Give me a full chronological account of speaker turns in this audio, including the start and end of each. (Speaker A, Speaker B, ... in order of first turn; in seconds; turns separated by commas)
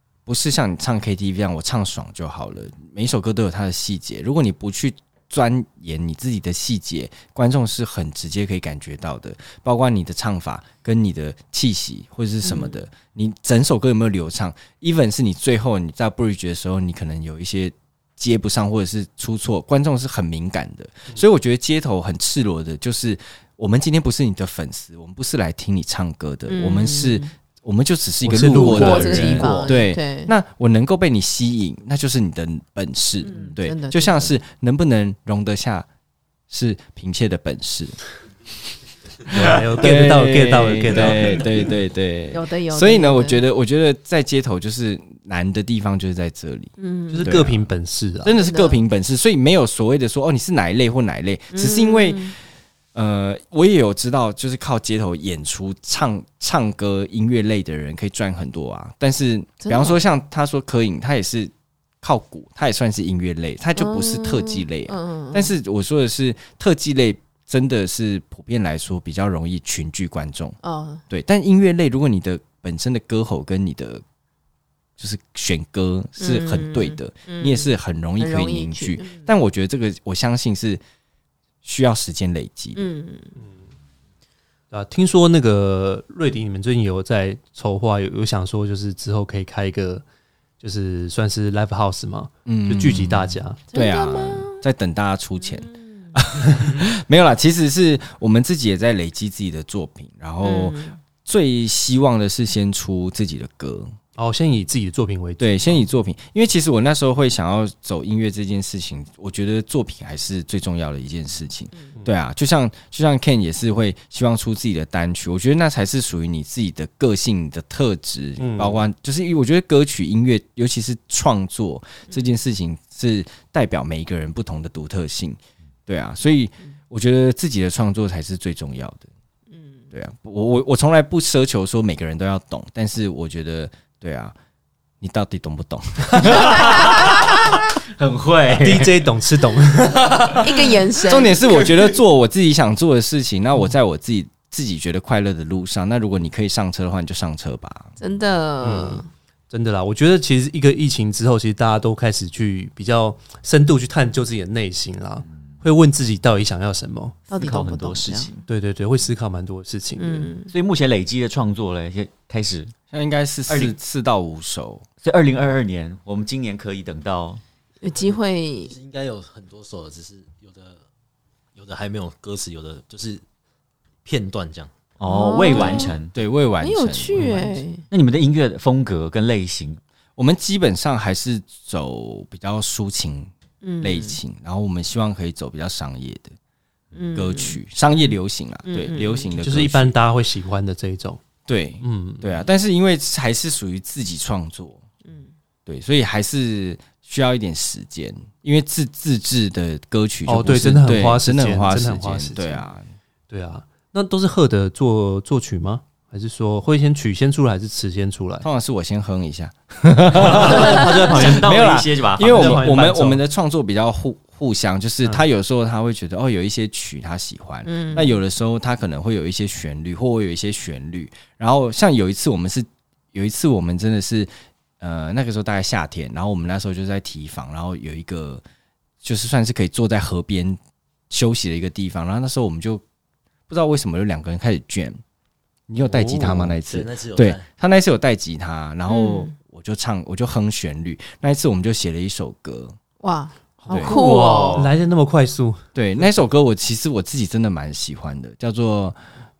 Speaker A: 0.3-35.9, Speaker B: 12.4-12.8, Speaker B: 26.5-27.3, Speaker C: 28.2-29.8, Speaker B: 28.6-30.3, Speaker B: 33.2-34.3, Speaker A: 36.5-38.0, Speaker A: 39.3-47.6, Speaker C: 39.3-41.5, Speaker B: 42.3-43.4, Speaker B: 46.8-47.3, Speaker C: 47.1-48.3, Speaker A: 48.2-52.3, Speaker B: 48.4-48.8, Speaker B: 51.5-52.4, Speaker A: 53.0-70.6, Speaker B: 59.6-60.0, Speaker B: 63.8-65.5, Speaker B: 70.6-71.0, Speaker A: 71.1-74.0, Speaker A: 75.0-80.8, Speaker B: 76.2-79.2, Speaker A: 81.7-82.8, Speaker B: 82.8-83.3, Speaker C: 84.7-90.0, Speaker C: 90.6-93.6, Speaker A: 92.5-104.0, Speaker B: 93.7-94.6, Speaker B: 95.5-96.2, Speaker B: 100.4-101.0, Speaker C: 104.2-105.8, Speaker A: 105.4-129.1, Speaker C: 118.4-118.8, Speaker B: 129.5-129.8, Speaker A: 129.9-134.3, Speaker A: 135.0-137.3, Speaker D: 136.2-139.0, Speaker B: 136.5-137.2, Speaker C: 138.6-140.7, Speaker B: 140.4-141.6, Speaker A: 141.1-147.9, Speaker B: 148.0-149.1, Speaker C: 148.6-157.2, Speaker B: 157.3-158.3, Speaker D: 157.3-158.5, Speaker C: 158.5-160.3, Speaker B: 160.0-160.5, Speaker D: 160.5-162.7, Speaker A: 162.9-164.9, Speaker D: 163.5-163.7, Speaker D: 165.0-167.4, Speaker B: 167.8-168.7, Speaker E: 168.7-170.8, Speaker E: 171.6-173.2, Speaker E: 174.1-174.7, Speaker D: 175.0-176.1, Speaker B: 175.1-175.9, Speaker A: 175.5-177.3, Speaker B: 176.6-177.8, Speaker C: 177.2-177.6, Speaker D: 177.9-179.8, Speaker A: 180.2-186.3, Speaker B: 183.6-184.2, Speaker B: 186.9-187.6, Speaker A: 187.2-189.9, Speaker B: 188.7-189.3, Speaker C: 189.4-191.2, Speaker A: 191.5-194.8, Speaker C: 191.8-192.3, Speaker A: 195.7-202.8, Speaker C: 200.3-202.6, Speaker C: 203.3-208.5, Speaker A: 208.4-224.3, Speaker D: 210.2-212.7, Speaker C: 210.2-211.6, Speaker C: 212.2-213.2, Speaker B: 217.7-218.2, Speaker A: 224.8-228.4, Speaker A: 229.0-230.6, Speaker A: 231.1-232.8, Speaker A: 233.5-235.0, Speaker A: 235.7-242.8, Speaker C: 235.8-236.6, Speaker E: 236.7-237.4, Speaker B: 238.9-239.3, Speaker B: 243.0-244.6, Speaker C: 243.7-245.6, Speaker D: 243.8-244.7, Speaker A: 245.8-249.0